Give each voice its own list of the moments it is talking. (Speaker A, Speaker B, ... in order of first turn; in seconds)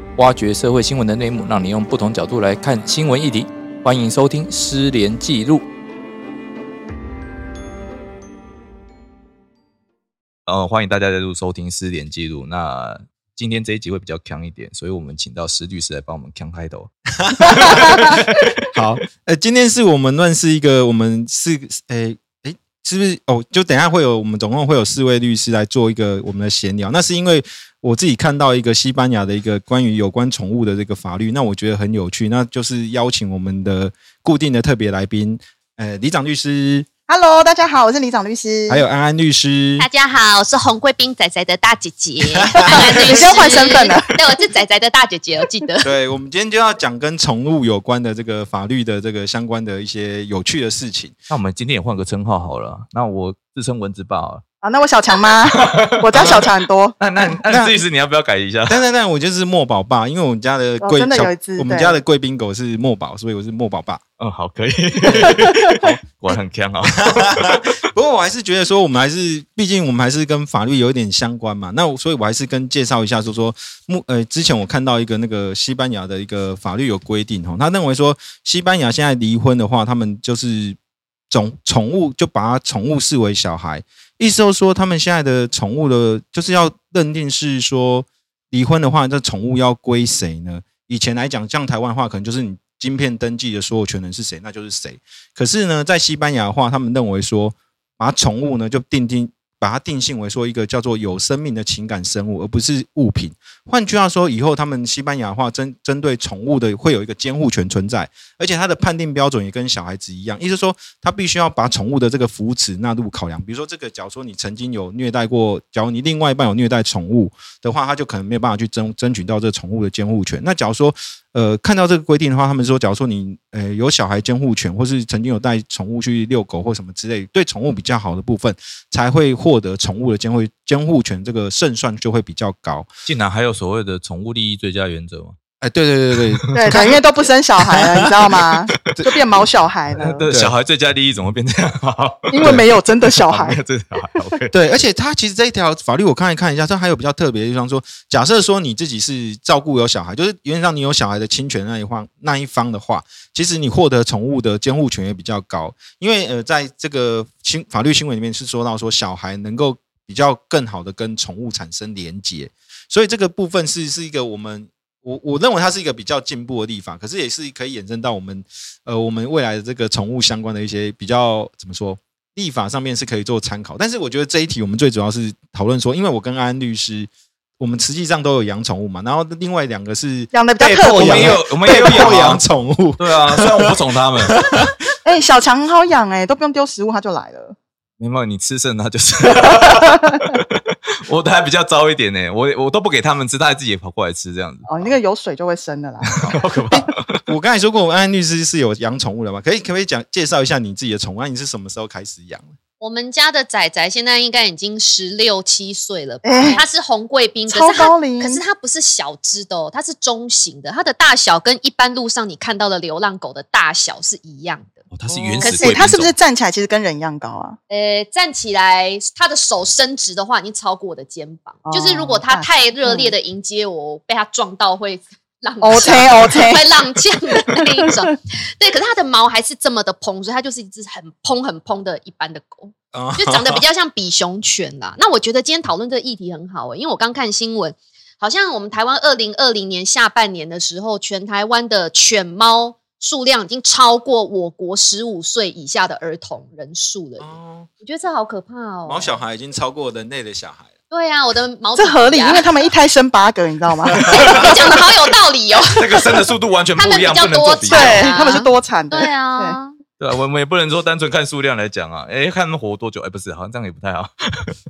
Speaker A: 0.2-5.6, 10.5-16.9, 17.4-18.7, 51.3-54.4, 55.5-56.5, 57.0-58.8, 64.2-67.6, 133.1-135.4, 136.3-136.8, 140.0-144.5, 180.8-182.4, 183.0-184.4, 188.0-194.9, 196.1-197.2, 214.9-216.1, 255.7-258.1, 260.0-264.6
Speaker B: 17.2-36.9, 38.7-39.9, 42.4-43.5, 45.8-51.2, 57.2-57.8, 58.7-64.0, 67.0-80.8, 81.3-132.9, 135.6-137.0, 137.7-139.1, 140.3-140.5, 144.5-184.8, 197.2-202.6, 215.1-215.7, 232.9-233.6, 247.2-247.7, 248.9-250.7, 253.9-254.5
Speaker C: 17.6-18.2, 37.1-38.8, 42.7-44.2, 54.6-57.0, 60.8-62.0, 65.1-65.9, 136.5-140.2, 142.3-143.6, 180.3-182.1, 185.0-187.6, 189.7-190.3, 194.7-196.8, 206.2-206.6, 207.5-208.4, 215.4-217.6, 221.6-223.1, 225.6-226.7, 227.4-227.9, 251.8-254.8, 257.7-259.6
Speaker D: 39.8-45.9, 202.8-214.8, 217.7-249.1, 250.9-252.5, 254.1-256.2, 256.8-259.8